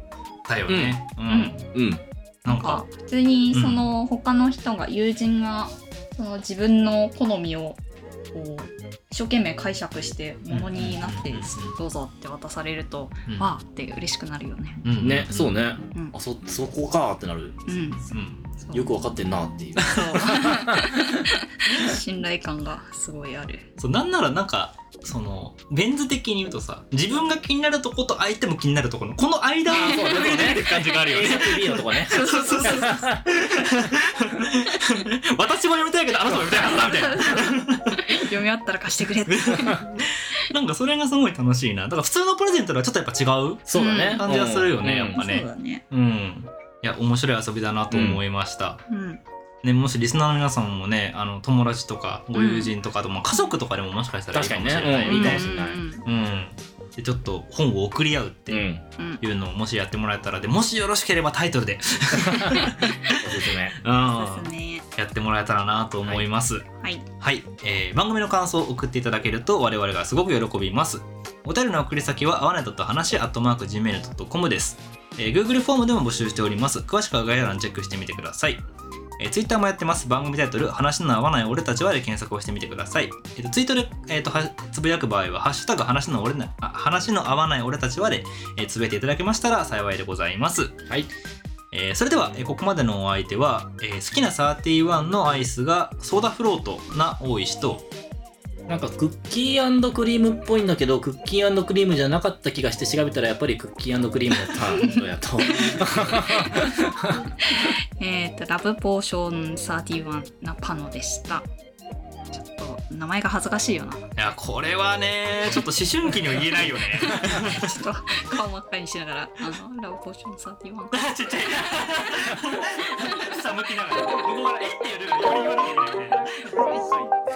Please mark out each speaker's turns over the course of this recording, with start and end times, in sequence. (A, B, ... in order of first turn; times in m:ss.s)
0:00.5-0:01.6 A
0:00.7-0:01.0 B
0:01.3-0:01.6 C
0:01.7-0:02.0 B
0:02.4-0:02.8 A
0:02.4-0:07.8 C
0:03.5-0:03.9 A
0:08.3-0:14.8 C
0:10.5-0:11.8 A
0:14.8-0:15.6 A
0:15.0-0:17.7 B
0:17.7-0:18.0 C
0:18.1-0:18.4 A
0:18.6-0:19.0 C
0:18.7-0:21.0 B
0:19.8-0:23.6 C
0:19.8-0:20.1 A
0:23.8-0:38.2 A
0:29.7-0:33.2 B
0:29.7-0:31.0 C
0:32.0-0:33.2 C
0:36.3-0:36.8 B
0:36.7-0:39.9 C
0:39.3-0:48.8 A
0:43.7-0:45.2 B
0:43.7-0:44.2 C
0:45.1-0:45.8 C
0:47.9-0:48.2 B
0:48.9-0:49.2 C
0:49.6-0:55.5 A
0:52.3-0:52.7 C
0:54.3-0:55.8 B
0:55.0-0:56.0 C
0:56.0-0:58.6 A
0:58.5-0:58.8 B
0:59.0-0:59.2 C
0:59.2-1:03.4 A
1:02.2-1:04.5 B
1:04.1-1:04.8 C
1:05.0-1:06.6 A
1:06.8-1:07.0 C
1:07.2-1:18.6 A
1:19.2-1:30.8 A
1:31.7-1:37.8 A
1:38.7-1:47.2 B
1:45.5-1:46.8 C
1:47.4-1:51.4 C
1:52.4-1:54.1 C
1:54.2-1:57.8 A
1:57.1-2:03.4 C
2:00.9-2:07.1 A
2:06.8-2:07.1 B